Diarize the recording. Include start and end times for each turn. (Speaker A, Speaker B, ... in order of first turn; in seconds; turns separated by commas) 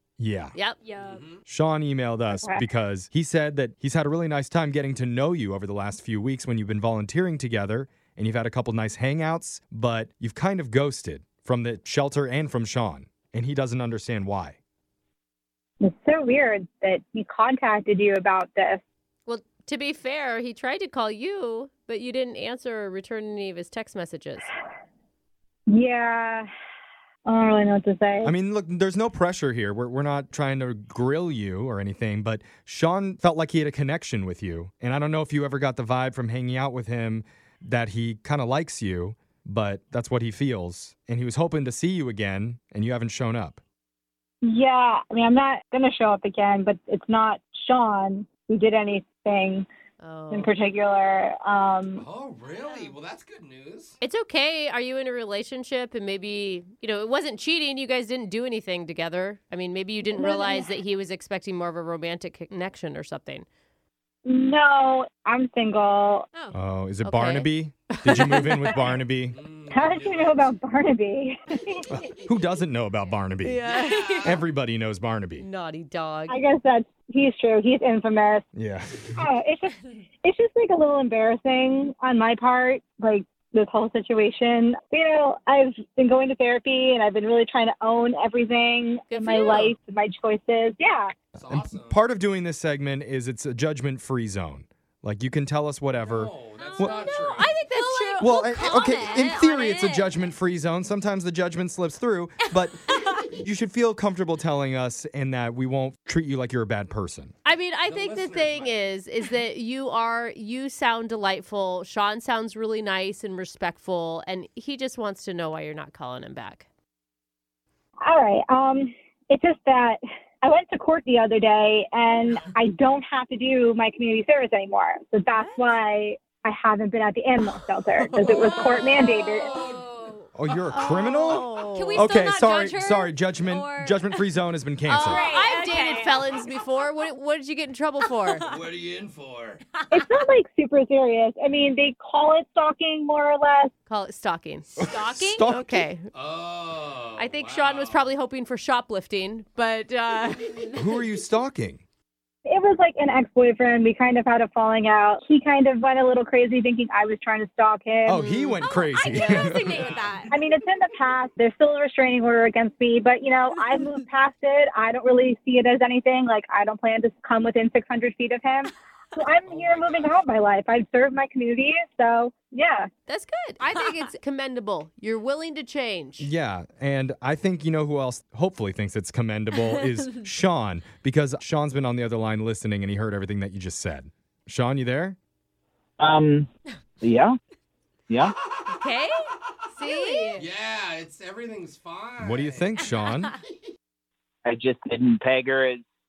Speaker A: 0.2-0.5, Speaker B: 0.8-1.2, Speaker C: 1.0-1.4, Speaker A: 1.4-14.6, Speaker D: 2.3-2.6, Speaker D: 15.8-18.8, Speaker E: 19.2-24.5, Speaker D: 25.7-26.5, Speaker D: 27.2-28.3, Speaker A: 28.2-43.6, Speaker D: 44.4-49.6, Speaker E: 50.0-50.5, Speaker D: 50.3-52.0, Speaker C: 51.9-53.9, Speaker E: 54.0-63.5, Speaker D: 60.1-60.7, Speaker D: 64.2-66.3, Speaker A: 66.5-69.4, Speaker E: 67.0-68.8, Speaker C: 69.3-70.5, Speaker D: 69.7-71.9, Speaker A: 71.9-73.6, Speaker E: 73.4-74.4, Speaker C: 73.6-74.4, Speaker A: 74.2-75.5, Speaker E: 75.4-76.4, Speaker D: 76.3-78.5, Speaker A: 78.5-79.2, Speaker D: 79.2-91.1, Speaker E: 89.1-89.7, Speaker C: 91.3-92.0, Speaker A: 91.5-97.0, Speaker C: 96.0-97.5, Speaker B: 96.6-100.1, Speaker E: 97.2-98.3, Speaker A: 98.2-107.3, Speaker B: 102.5-103.2, Speaker E: 107.4-116.7, Speaker C: 107.8-108.8, Speaker D: 118.0-129.6, Speaker E: 128.1-129.0, Speaker C: 128.2-130.1, Speaker B: 129.5-130.3, Speaker A: 130.3-135.2, Speaker E: 130.7-132.1, Speaker B: 131.7-134.2, Speaker E: 134.9-138.4, Speaker B: 135.0-136.9, Speaker B: 138.2-138.6, Speaker C: 138.4-139.6, Speaker B: 139.8-140.2, Speaker D: 139.9-143.7, Speaker E: 143.9-144.7, Speaker B: 144.8-145.4, Speaker A: 144.8-145.9, Speaker E: 145.4-146.0, Speaker C: 146.1-148.1, Speaker E: 147.2-150.6, Speaker A: 150.8-151.8, Speaker D: 152.4-158.3, Speaker A: 158.1-159.9, Speaker E: 158.2-158.6, Speaker B: 158.6-160.3, Speaker C: 159.6-160.3, Speaker D: 160.3-172.9, Speaker C: 169.4-170.2, Speaker E: 173.1-176.3, Speaker A: 176.2-185.2, Speaker F: 186.0-186.5, Speaker F: 187.0-187.4, Speaker B: 188.7-189.1, Speaker E: 188.8-189.0, Speaker E: 189.8-190.4, Speaker B: 189.8-190.5, Speaker C: 190.3-192.7, Speaker A: 192.2-193.3, Speaker F: 194.4-195.8